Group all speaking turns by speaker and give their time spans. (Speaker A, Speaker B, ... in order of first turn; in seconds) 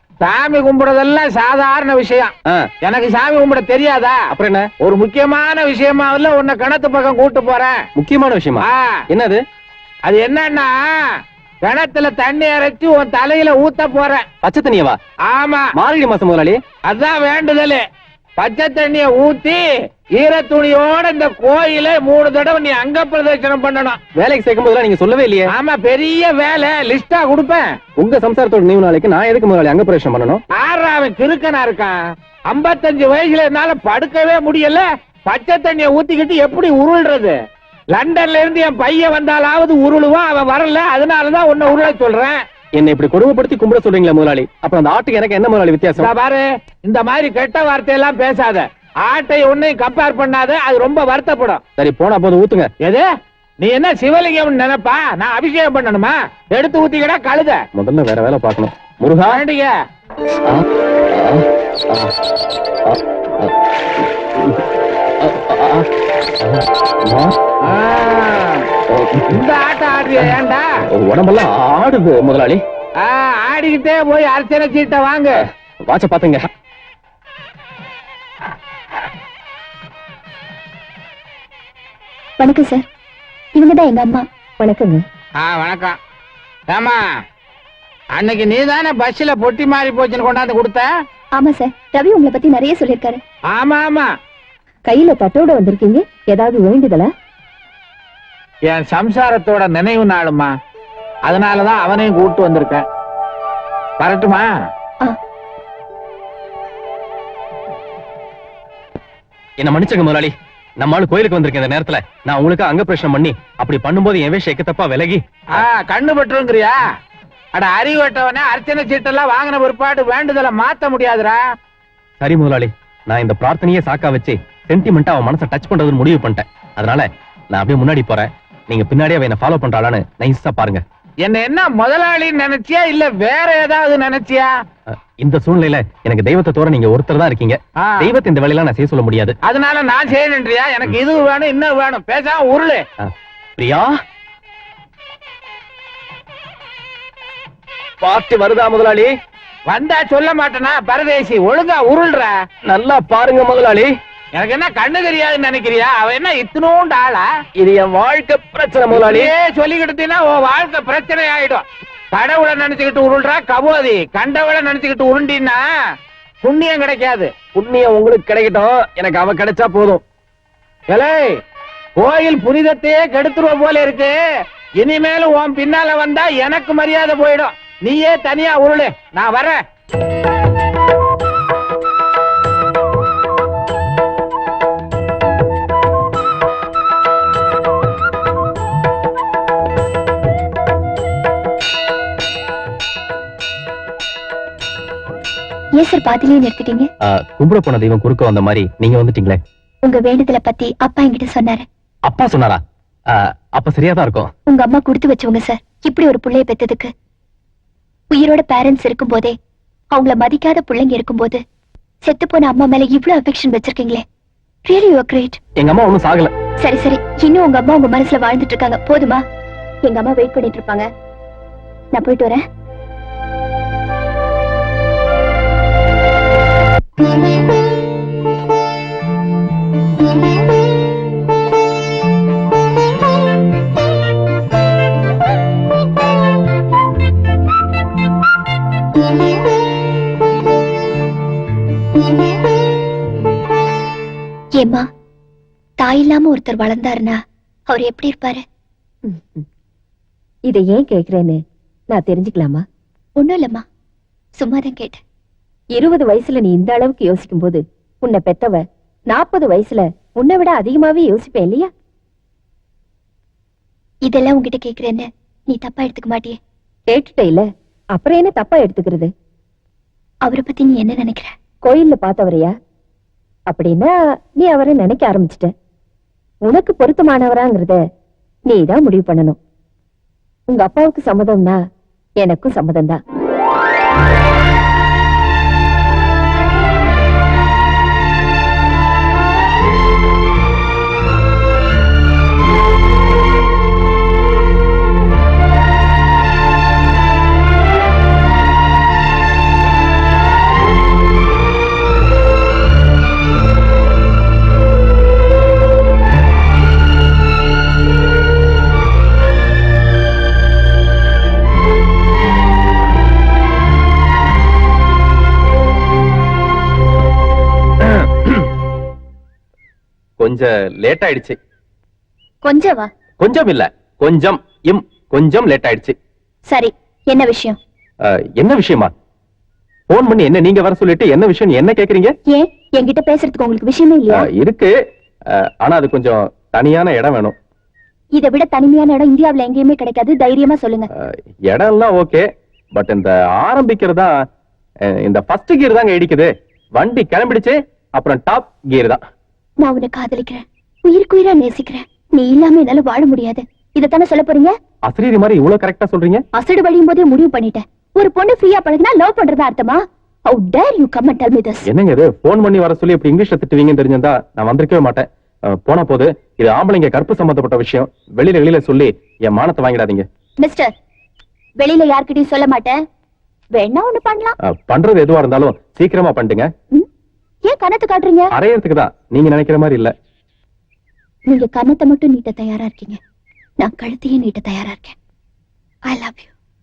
Speaker A: 0.2-2.3, 2.8-4.2, 4.8-7.7, 8.6-9.0, 10.1-14.2, 15.3-15.7, 16.9-17.8, 18.4-24.0, 25.5-27.7, 30.5-32.0, 32.5-37.4, 37.9-42.4, 46.0-51.6, 53.6-57.6, 59.3-59.7, 67.7-68.7, 69.3-70.6, 73.0-75.4, 85.4-86.0, 86.7-87.0, 88.2-90.9, 93.5-94.1, 98.7-100.5, 101.2-102.8, 104.0-104.5, 115.5-116.8, 117.5-121.4, 131.2-134.5, 137.8-138.1, 139.4-142.8, 149.7-152.3, 154.3-157.2, 158.9-165.6, 166.4-167.3, 170.9-171.3, 172.0-174.2, 174.8-179.6
Speaker B: 4.3-4.7, 8.0-9.4, 14.4-15.0, 15.7-16.6, 24.1-25.5, 27.9-30.4, 42.7-46.1, 51.8-52.7, 57.7-59.4, 60.4-62.1, 62.9-64.7, 65.2-65.9, 66.4-67.3, 68.9-69.4, 70.9-72.6, 75.8-76.4, 109.6-115.2, 122.2-130.8, 134.9-139.3, 143.0-143.9, 148.0-149.1, 152.6-153.9, 157.6-159.3, 167.5-170.0, 197.0-199.4, 202.1-202.6, 203.5-204.3, 215.6-216.3, 317.8-318.4, 320.2-321.4, 323.2-325.9, 328.4-328.9, 329.9-332.1, 334.2-334.7, 335.4-337.3, 340.9-344.1, 345.0-349.0, 354.9-356.2, 361.7-370.0, 374.4-376.5, 378.3-379.9
Speaker C: 82.4-82.8, 83.5-84.2, 91.3-93.2, 195.8-196.9, 199.8-201.6, 204.5-206.9, 208.1-209.3, 209.9-211.4, 212.0-214.0, 214.7-215.4, 216.6-219.2, 219.8-220.8, 221.9-222.4, 244.6-244.8, 245.8-247.2, 247.7-248.4, 253.2-253.6, 254.4-255.0, 264.1-266.4, 270.2-271.3, 322.4-322.9, 326.5-327.6, 332.3-334.3, 338.1-340.9, 349.6-354.5, 356.3-361.6, 370.4-370.7, 371.6-372.8, 373.5-374.4, 377.5-378.3, 381.3-383.0, 383.6-384.9, 385.9-386.3
Speaker D: 84.7-85.0, 94.9-97.1, 249.1-249.4, 250.5-251.4, 251.9-252.6, 255.8-261.7, 266.9-269.1, 271.6-272.5, 273.5-275.5, 276.4-277.8, 278.5-279.4, 280.5-281.6, 282.2-283.0